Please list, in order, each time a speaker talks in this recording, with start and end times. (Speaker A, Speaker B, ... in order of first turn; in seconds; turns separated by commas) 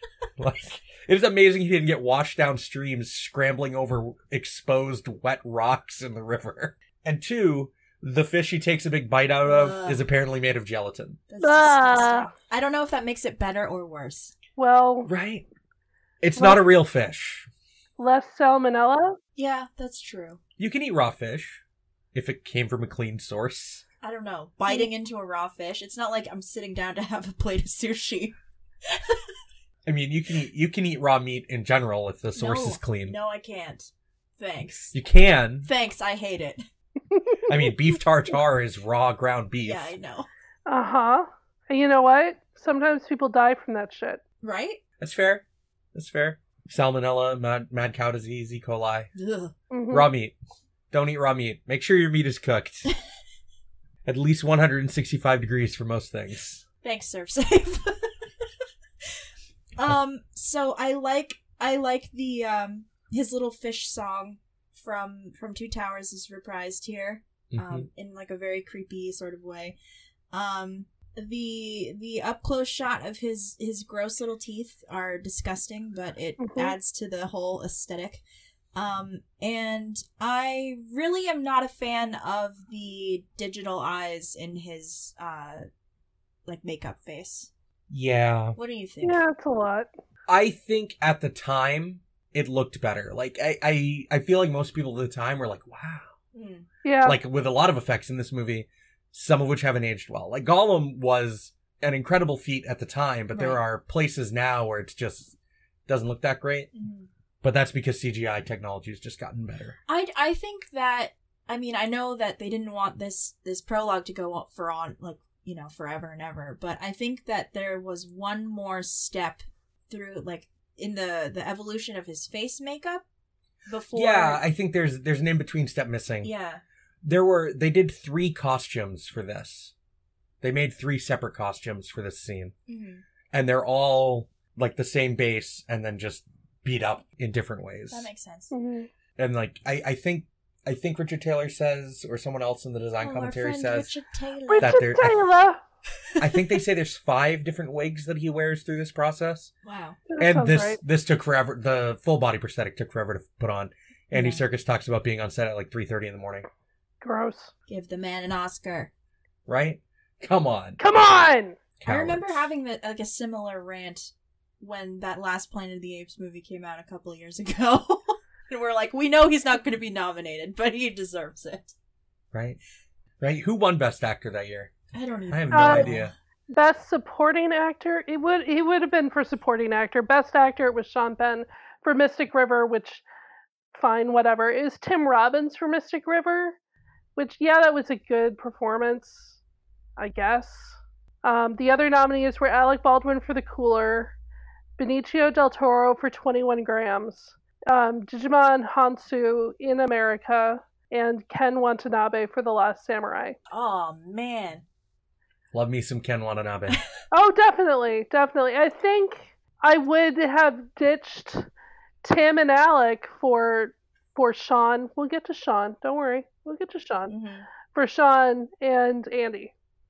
Speaker A: 0.4-11.2, Speaker B: 9.4-10.0, Speaker B: 11.3-14.3, Speaker C: 11.4-12.3, Speaker C: 14.6-15.1, Speaker A: 15.1-15.5, Speaker A: 16.2-17.5, Speaker C: 16.4-16.6, Speaker C: 18.0-19.2, Speaker B: 19.4-20.4, Speaker A: 20.6-21.6, Speaker A: 22.1-23.8, Speaker B: 24.0-28.4, Speaker A: 29.9-33.2, Speaker B: 32.3-35.0, Speaker A: 34.9-35.7, Speaker B: 35.6-36.6, Speaker C: 37.1-37.4, Speaker A: 37.5-39.9, Speaker B: 39.6-40.3, Speaker C: 40.6-44.2, Speaker B: 44.4-44.8, Speaker A: 45.0-49.1, Speaker B: 49.2-49.5, Speaker C: 49.7-50.1, Speaker A: 49.9-50.4, Speaker A: 50.9-52.9, Speaker A: 54.0-56.6, Speaker B: 56.8-58.1, Speaker B: 59.8-69.8, Speaker A: 67.5-67.9, Speaker B: 70.3-78.2, Speaker C: 76.4-76.8, Speaker B: 78.7-85.6, Speaker B: 86.5-87.5, Speaker A: 87.9-88.6, Speaker B: 88.5-89.2, Speaker C: 89.0-89.9, Speaker A: 90.3-96.1, Speaker B: 96.3-96.7, Speaker C: 96.8-97.2, Speaker A: 97.0-106.7, Speaker B: 103.3-103.6, Speaker B: 106.7-107.1, Speaker A: 107.4-109.8, Speaker B: 109.9-123.0, Speaker B: 123.7-124.5, Speaker A: 123.9-126.3, Speaker B: 126.2-126.6, Speaker A: 127.0-129.7, Speaker A: 130.4-132.5, Speaker B: 132.7-133.0, Speaker A: 133.3-138.1, Speaker B: 137.9-138.5, Speaker C: 138.5-138.9, Speaker A: 139.2-143.9, Speaker B: 143.0-144.9, Speaker C: 144.5-145.6, Speaker A: 144.6-145.2, Speaker A: 146.2-149.5, Speaker B: 149.6-150.0, Speaker C: 150.1-150.8, Speaker A: 150.2-156.5, Speaker B: 154.1-154.4, Speaker C: 157.0-157.5, Speaker B: 157.7-158.9, Speaker A: 159.5-160.8, Speaker C: 160.8-161.6, Speaker A: 161.8-162.5, Speaker B: 161.8-171.7, Speaker A: 172.3-172.6, Speaker A: 173.2-174.7, Speaker B: 174.9-176.1, Speaker A: 175.3-176.1, Speaker C: 175.5-175.9, Speaker C: 176.5-183.0, Speaker C: 183.7-186.6, Speaker C: 187.2-189.4, Speaker C: 190.0-194.2, Speaker C: 194.8-203.3, Speaker B: 203.5-204.6, Speaker A: 205.5-206.8, Speaker C: 207.1-211.5, Speaker C: 212.0-217.1, Speaker B: 217.1-217.5, Speaker C: 217.7-219.5